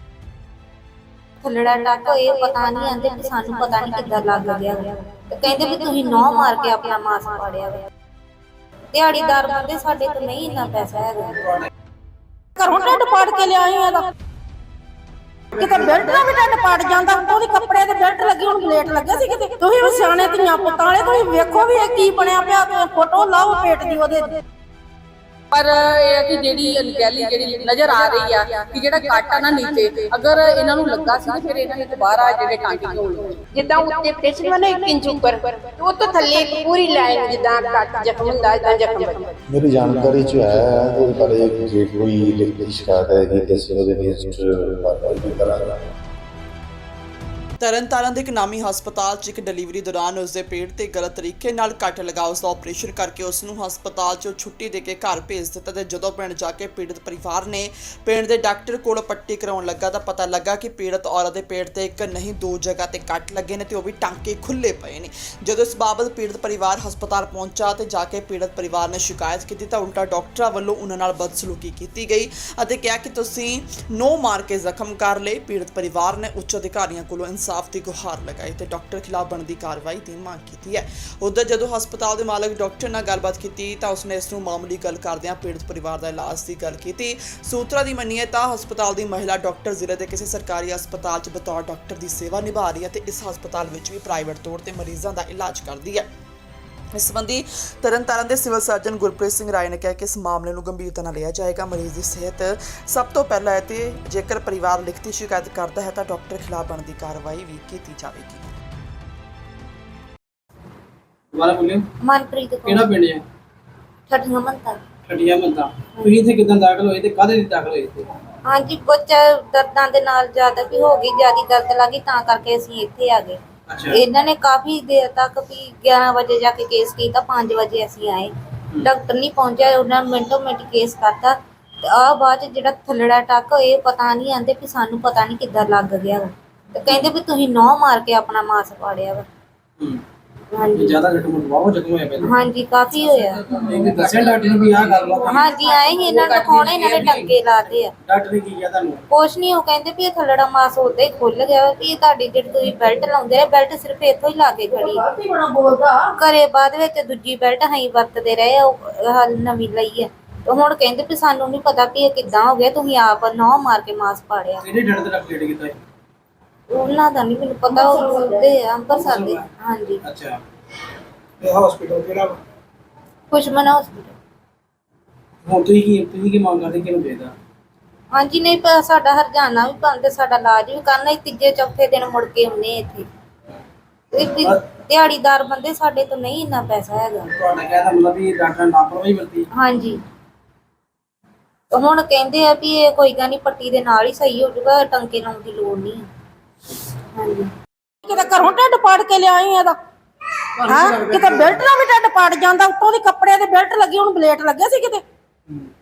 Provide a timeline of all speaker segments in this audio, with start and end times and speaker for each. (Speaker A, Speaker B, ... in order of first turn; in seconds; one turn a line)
Speaker A: 1.4-7.8
Speaker A: 8.9-11.6
Speaker B: 12.6-14.1
Speaker B: 15.6-24.3
Speaker C: 25.5-34.0
Speaker D: 33.5-39.4
Speaker E: 39.5-45.8
Speaker F: 40.0-40.4
Speaker G: 47.6-96.1
Speaker G: 96.9-108.5
Speaker F: 111.3-111.8
Speaker A: 112.0-112.8
Speaker F: 112.6-113.2
Speaker A: 114.1-114.8
Speaker F: 115.1-118.1
Speaker A: 118.5-131.3
Speaker F: 123.7-124.0
Speaker A: 131.9-139.2
Speaker F: 136.9-137.1
Speaker A: 140.5-141.0
Speaker F: 140.7-142.4
Speaker A: 142.2-143.5
Speaker F: 143.3-149.0
Speaker A: 145.2-147.9
Speaker A: 149.1-155.0
Speaker A: 156.1-164.6
Speaker F: 164.6-165.8
Speaker A: 166.7-170.0
Speaker F: 168.9-169.4
Speaker F: 170.0-170.4
Speaker F: 171.4-172.3
Speaker A: 173.3-174.1
Speaker F: 175.4-177.3
Speaker A: 178.1-183.1
Speaker A: 184.1-187.3
Speaker F: 187.3-189.5
Speaker A: 189.6-190.0
Speaker A: 191.7-196.1
Speaker B: 198.0-199.8
Speaker F: 200.6-201.6
Speaker B: 200.6-205.0